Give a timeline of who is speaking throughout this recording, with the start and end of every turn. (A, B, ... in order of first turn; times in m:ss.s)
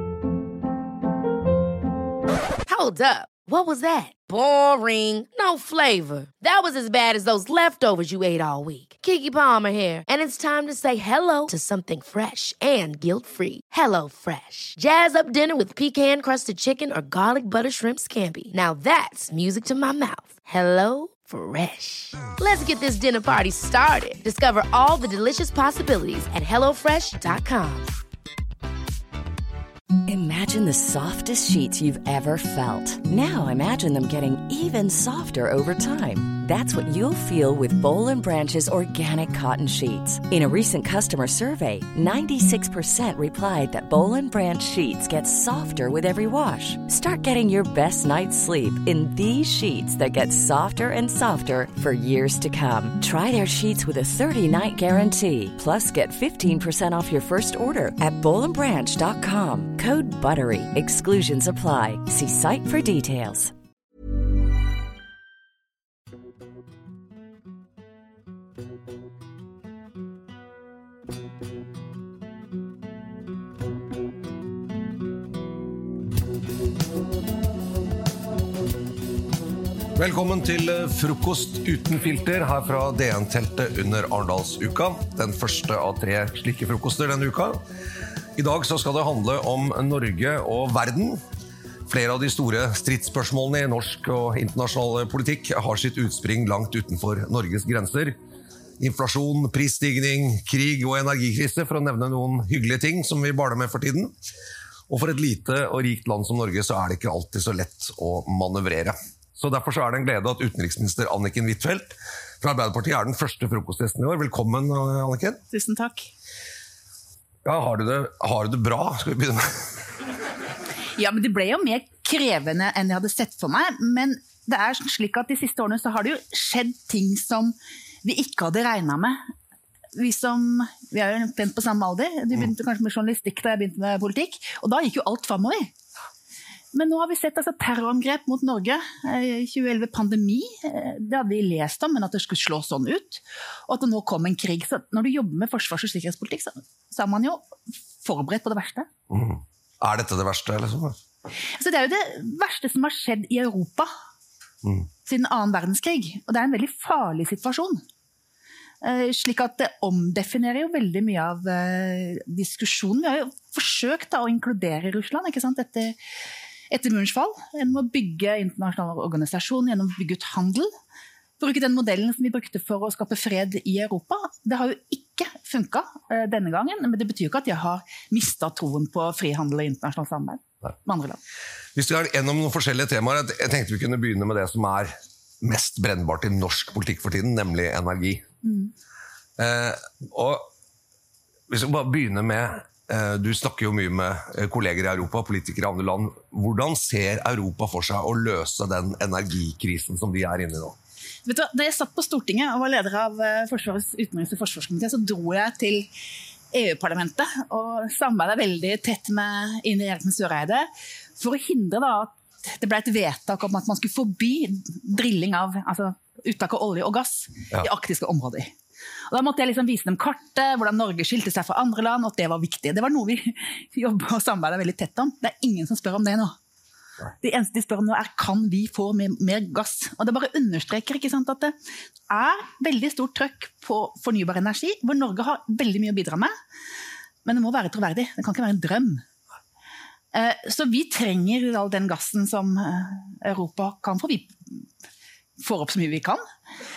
0:02.7-0:27.9 A
0:30.0-1:03.5 B
1:20.0-1:27.6 C
1:28.4-1:31.2 C
1:31.9-1:38.2 C
1:38.8-1:44.1 C
1:44.9-1:55.4 C
1:55.5-1:56.1 D
1:57.4-1:59.8 C
2:01.0-2:09.2 D
2:09.9-2:15.7 D
2:16.7-2:27.4 D
2:28.0-2:28.9 D
2:29.1-2:31.0 C
2:31.6-2:33.9 D
2:35.0-2:37.8 D
2:38.8-2:45.9 D
2:46.7-2:50.7 D
2:51.4-3:01.2 D
3:01.8-3:08.2 C
3:08.4-3:08.7 D
3:09.4-3:10.5 C
3:11.5-3:20.8 C
3:21.2-3:25.9 D
3:26.5-3:38.5 D
3:39.1-3:46.3 D
3:47.2-3:51.5 D
3:52.1-3:56.3 D
3:57.2-3:59.0 D
4:00.1-4:04.7 D
4:05.4-4:06.2 D